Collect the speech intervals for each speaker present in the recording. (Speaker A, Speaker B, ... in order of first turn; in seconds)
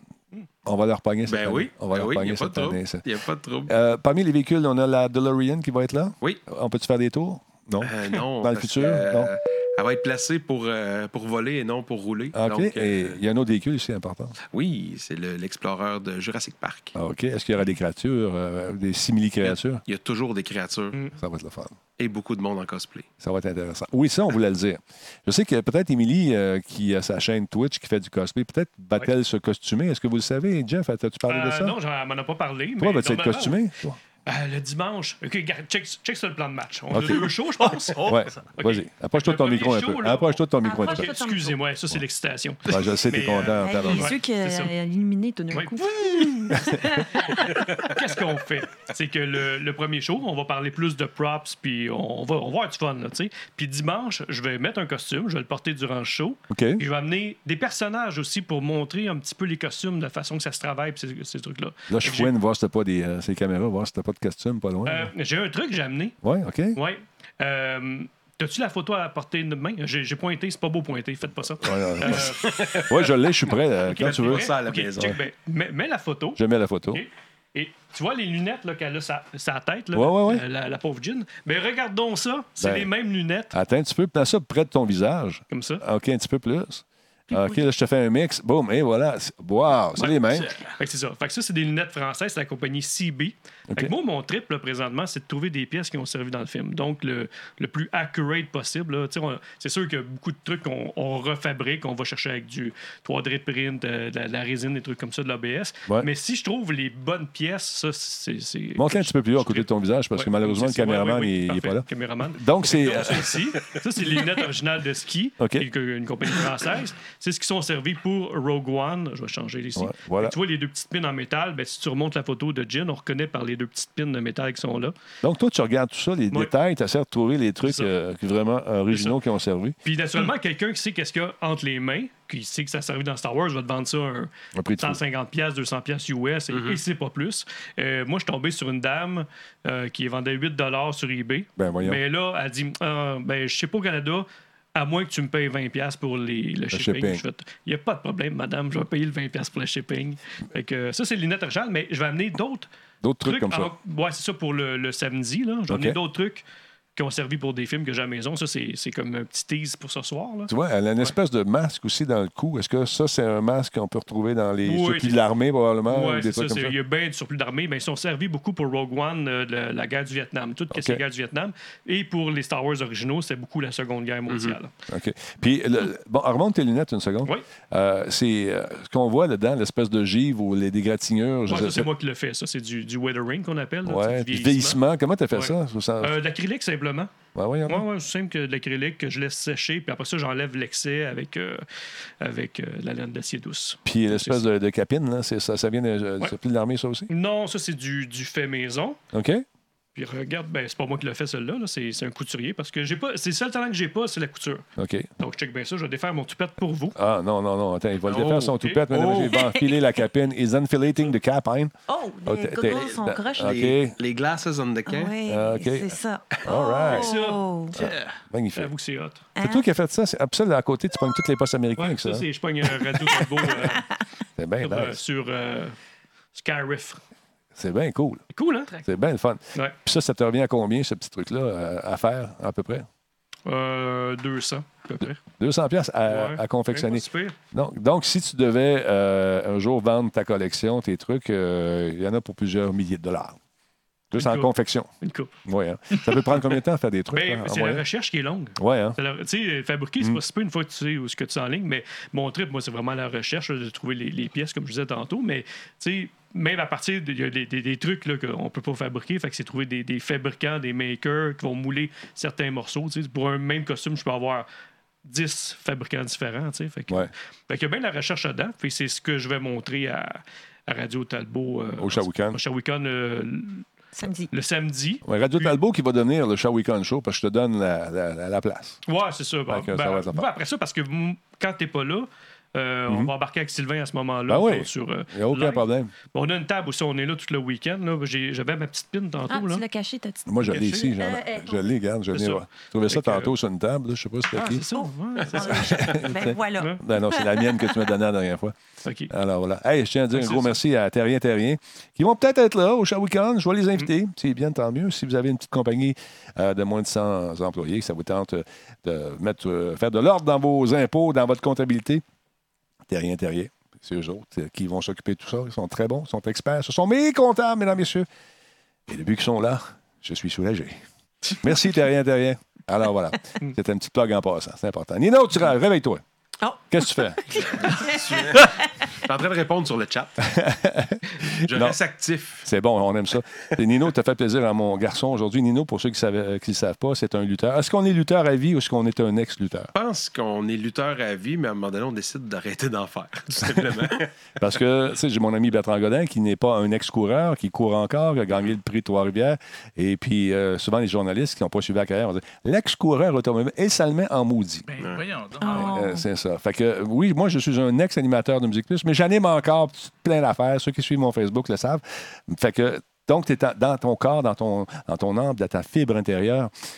Speaker A: 0.6-3.0, 3.7-9.3, 12.3-14.3, 16.9-19.8, 21.2-21.8, 23.2-31.8, 32.8-34.0, 36.9-37.2, 38.1-41.1, 42.6-44.2, 56.5-56.8, 61.9-65.1, 66.2-66.8, 71.6-75.1, 76.4-77.0, 79.9-80.4, 82.6-82.9, 83.5-90.5, 108.8-113.3, 115.4-115.7, 119.8-120.3, 125.2-129.8, 134.6-135.0, 141.6-142.0, 146.7-147.2, 153.0-153.7, 155.7-156.0, 160.5-166.7, 170.7-171.0, 174.9-181.9, 183.8-186.2, 187.3-187.8, 193.8-197.1, 199.1-199.4, 204.8-205.1, 206.9-211.7, 212.2-214.0, 215.3-217.1, 217.8-218.7, 219.4-222.3, 224.4-225.0, 227.6-228.2, 228.8-232.9, 235.0-243.4, 244.1-244.9, 245.4-247.8, 248.6-249.0, 271.8-272.4, 275.0-278.8, 279.5-280.3, 284.3-285.9, 290.3-294.6, 295.4-298.6, 299.1-312.0, 312.9-318.1, 318.9-320.8, 321.3-326.0, 326.7-327.5, 330.2-331.8, 332.4-339.7, 344.4-354.7, 355.5-366.5
Speaker B: 1.2-3.7, 7.8-13.2, 14.5-17.0, 19.4-21.0, 22.0-23.1, 72.4-73.1, 74.0-75.2, 136.5-136.8, 174.3-174.6, 208.1-209.4, 212.6-215.2, 327.6-330.2, 331.4-332.4, 339.7-344.5
Speaker C: 31.3-33.6, 34.3-44.7, 45.5-62.3, 64.9-66.2, 66.7-72.6, 73.9-76.4, 76.9-83.5, 85.5-85.8, 90.0-125.0, 127.6-127.9, 128.9-129.2, 129.8-152.7, 153.2-156.4, 157.0-161.1, 164.6-165.2, 165.9-174.7, 181.5-184.8, 185.3-187.1, 187.7-191.6, 192.2-194.4, 197.1-199.0, 199.9-204.6, 205.2-207.0, 208.2-208.9, 216.8-217.4, 218.6-219.2, 221.8-223.9, 224.6-225.8, 226.3-227.0, 228.3-228.8, 233.5-235.2, 236.1-237.4, 244.1-245.3, 247.1-264.5, 265.1-273.7, 274.3-275.6, 278.9-289.6, 290.4-290.9, 292.1-293.4, 294.3-296.0, 298.8-299.1, 300.1-300.6
Speaker D: 37.6-38.5, 90.4-90.7, 217.8-218.2, 354.7-355.7
Speaker E: 40.6-41.6, 43.5-47.6, 209.3-209.7, 211.9-213.5, 214.9-217.8, 219.4-219.7, 274.0-274.3, 289.3-291.6, 294.7-297.9, 326.4-328.9, 355.4-356.1